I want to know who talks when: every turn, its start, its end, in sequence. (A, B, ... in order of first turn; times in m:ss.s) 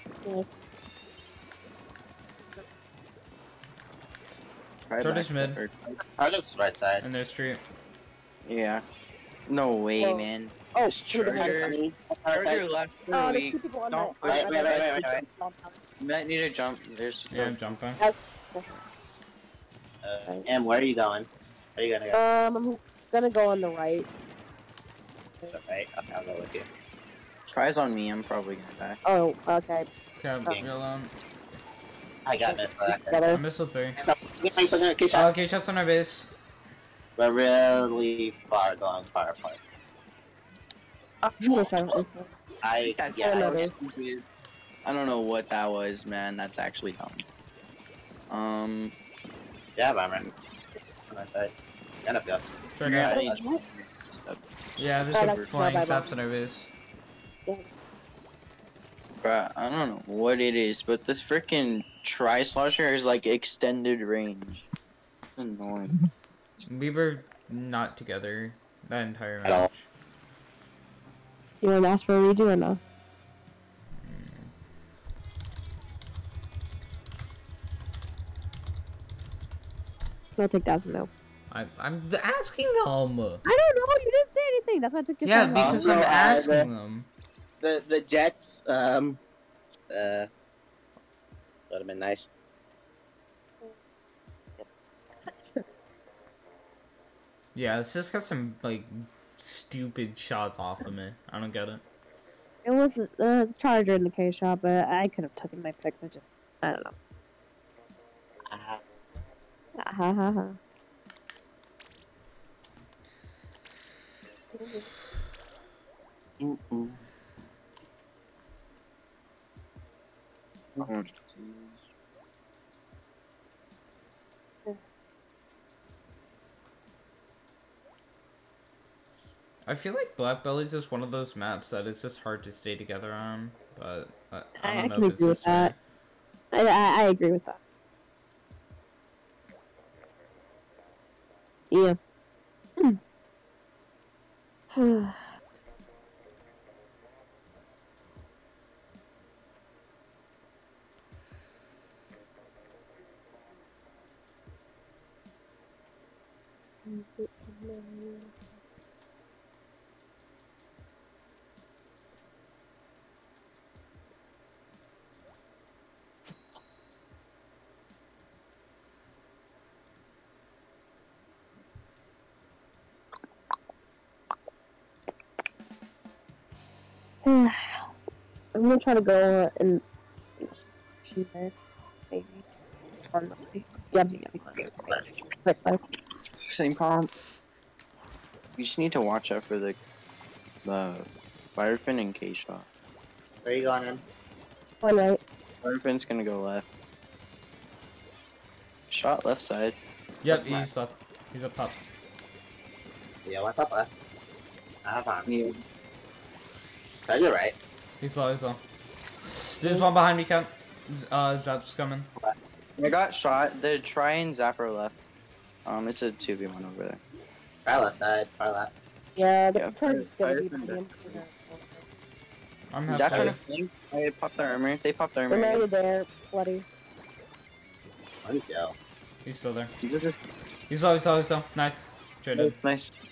0:00.2-0:00.6 A
0:04.9-0:06.0 B
0:05.0-0:05.6 C
0:06.2-0:07.0 D
0:07.0-0:07.6 C
0:08.4-0:08.8 B
0:09.5-0:11.8 B
0:10.0-0:11.7 A
0:11.2-0:12.6 D
0:12.3-0:15.0 B
0:13.1-0:15.8 A
0:14.2-0:15.2 D
0:16.0-0:17.6 B
0:17.3-0:18.0 C
0:18.0-0:18.8 A
0:20.0-0:22.2 D
0:22.1-0:24.1 A
0:25.5-0:26.7 D
0:27.5-0:29.0 B
0:29.0-0:29.9 A
0:30.2-0:31.1 C
0:32.2-0:33.3 D
0:32.4-0:33.4 A
0:33.3-0:34.0 C
0:34.0-0:35.3 D
0:35.1-0:36.3 C
0:37.2-0:39.6 D
0:41.2-0:42.3 A
0:42.6-0:43.6 D
0:42.9-0:44.2 B
0:43.2-0:43.7 A
0:44.8-0:47.2 B
0:48.3-0:48.9 B
0:49.8-0:50.3 D
0:51.1-0:52.4 D
0:52.8-0:53.3 C
0:52.8-0:55.5 B
0:53.0-0:53.6 A
0:53.1-0:53.4 D
0:54.8-0:56.7 C
0:55.1-0:56.1 A
0:59.2-1:04.7 B
1:05.4-1:06.0 B
1:06.6-1:09.8 C
1:11.6-1:12.8 A
1:14.0-1:14.5 C
1:20.4-1:21.1 A
1:21.5-1:23.4 C
1:23.4-1:26.1 A
1:25.2-1:27.1 C
1:25.6-1:26.7 D
1:25.8-1:26.5 B
1:27.6-1:29.2 D
1:29.9-1:30.3 D
1:31.7-1:32.3 D
1:35.3-1:35.6 A
1:37.5-1:41.8 C
1:42.6-1:47.0 A
1:48.5-1:48.8 D
1:49.8-1:50.6 A
1:54.5-1:54.9 A
1:56.4-1:56.9 D
2:00.8-2:01.8 B
2:09.6-2:15.8 C
2:14.6-2:15.7 A
2:16.5-2:17.6 A
2:21.7-2:22.0 A
2:24.7-2:25.3 A
2:36.8-2:38.3 A
2:57.2-2:57.9 A
2:58.5-2:59.8 A
3:00.4-3:01.5 A
3:02.1-3:02.4 A
3:03.1-3:05.8 A
3:04.4-3:05.0 D
3:06.4-3:07.1 B
3:08.6-3:09.8 B
3:10.6-3:12.6 B
3:13.4-3:14.0 D
3:14.8-3:15.2 A
3:15.6-3:16.8 B
3:18.9-3:19.8 B
3:20.2-3:21.8 C
3:20.3-3:20.7 B
3:23.2-3:23.9 D
3:24.8-3:25.3 D
3:25.2-3:25.6 B
3:27.1-3:27.6 D
3:28.0-3:28.6 C
3:29.2-3:32.1 C
3:32.8-3:35.1 B
3:35.6-3:37.0 B
3:37.6-3:38.7 D
3:39.2-3:41.8 A
3:39.5-3:41.2 B
3:42.7-3:43.4 C
3:42.9-3:45.6 B
3:45.3-3:46.6 A
3:48.2-3:48.7 D
3:49.2-3:49.7 C
3:49.8-3:50.2 B
3:50.7-3:52.6 C
3:52.3-3:52.9 B